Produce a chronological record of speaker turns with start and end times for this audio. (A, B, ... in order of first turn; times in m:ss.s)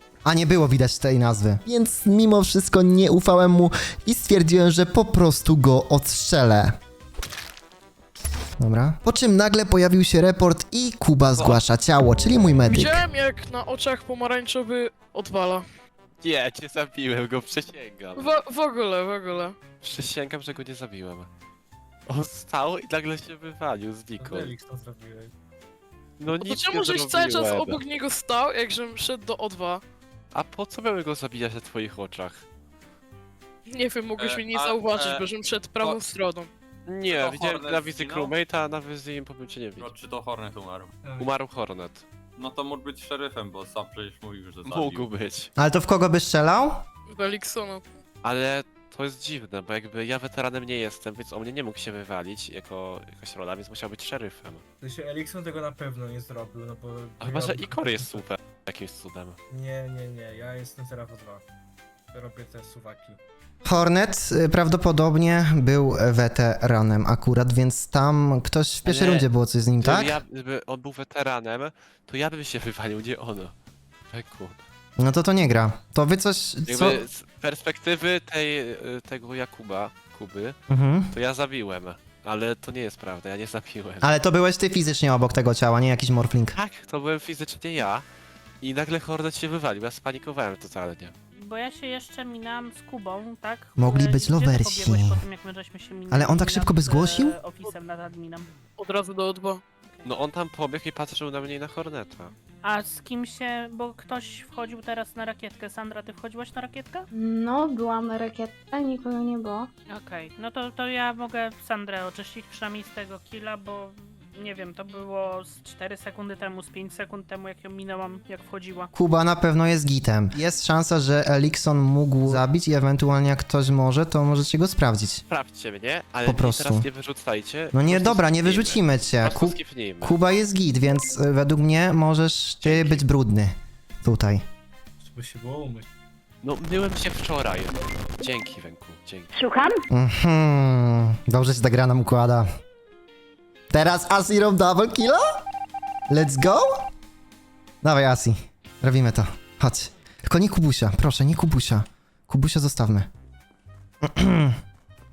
0:00.2-0:06.8 A
0:08.6-0:13.0 A
0:12.7-0:15.6 B
0:16.2-0:18.4 C
0:18.2-0:19.6 B
0:19.8-0:21.3 C
0:22.1-0:24.5 C
0:24.2-0:25.3 D
0:26.2-0:27.8 C
0:26.4-0:29.8 B
0:30.3-0:32.4 C
0:33.7-0:36.5 B
0:34.2-0:35.2 E
0:36.9-0:40.0 C
0:37.1-0:38.4 E
0:39.8-0:41.0 E
0:41.0-0:41.3 D
0:41.2-0:42.0 C
0:42.4-0:45.1 E
0:44.6-0:45.5 C
0:45.6-0:46.8 A
0:47.1-0:47.8 B
0:48.2-0:54.6 C
0:54.8-0:58.2 D
0:57.2-0:59.4 C
0:59.5-1:01.4 D
1:02.1-1:03.2 D
1:03.6-1:10.1 A
1:08.8-1:09.3 C
1:09.8-1:13.5 C
1:14.1-1:14.6 C
1:15.0-1:17.0 A
1:16.6-1:20.6 C
1:20.8-1:21.1 A
1:21.1-1:24.2 C
1:24.0-1:26.5 A
1:26.5-1:28.0 C
1:28.6-1:31.1 C
1:31.4-1:38.5 F
1:33.8-1:35.2 A
1:36.1-1:37.4 A
1:38.8-1:39.6 B
1:39.9-1:40.1 F
1:40.0-1:42.3 C
1:42.6-1:47.0 F
1:47.1-1:49.7 G
1:49.9-1:58.9 F
1:58.9-2:05.2 A
2:05.3-2:10.2 C
2:06.3-2:06.8 A
2:07.7-2:13.5 A
2:12.6-2:13.1 C
2:14.0-2:14.4 A
2:15.0-2:15.9 D
2:16.4-2:19.3 C
2:19.3-2:19.8 G
2:20.0-2:22.4 A
2:23.7-2:25.2 A
2:26.1-2:26.6 A
2:27.8-2:33.1 A